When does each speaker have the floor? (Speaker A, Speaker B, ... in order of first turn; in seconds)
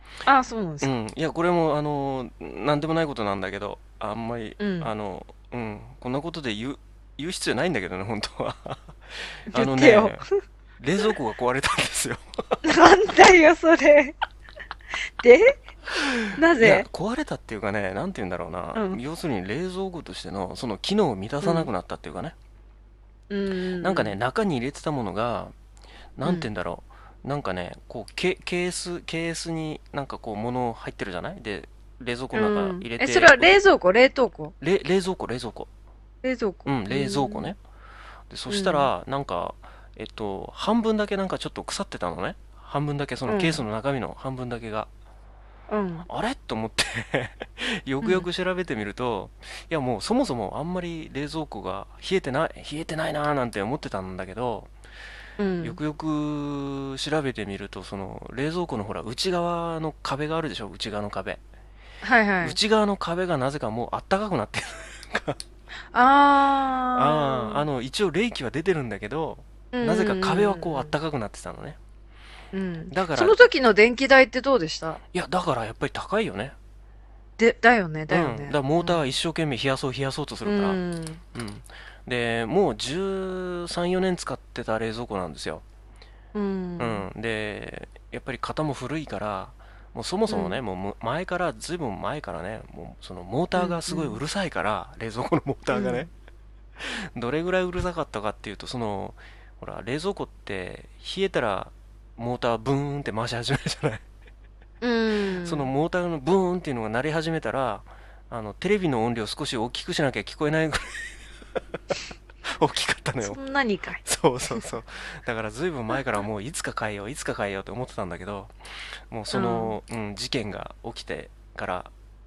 Speaker A: 0.2-0.9, 4.6-4.9, 9.5-10.2, 12.6-14.2, 15.2-15.6, 16.3-16.9, 18.7-19.0, 21.4-21.7, 23.3-24.2, 32.3-34.5, 36.2-37.5, 38.5-38.9, 43.3-43.6, 45.7-46.0, 55.4-55.8, 62.0-62.6, 65.9-67.6, 69.7-70.9, 72.5-75.0, 77.4-79.0, 80.5-81.2, 86.3-87.0, 90.3-90.6, 93.5-94.2, 95.7-96.1, 104.8-105.7, 113.2-114.0, 119.3-119.7
Speaker B: 0.8-8.9, 9.5-10.2, 10.8-12.2, 16.1-22.3, 23.8-25.5, 26.2-33.5, 34.6-35.7, 36.6-37.6, 38.3-44.9, 46.1-54.7, 55.6-61.4, 62.4-65.4, 66.9-71.8, 72.9-73.4, 75.1-76.5, 78.1-80.8, 81.3-85.6, 86.8-96.1, 96.8-104.0, 105.4-111.1, 112.6-113.4, 114.0-118.5, 119.1-121.9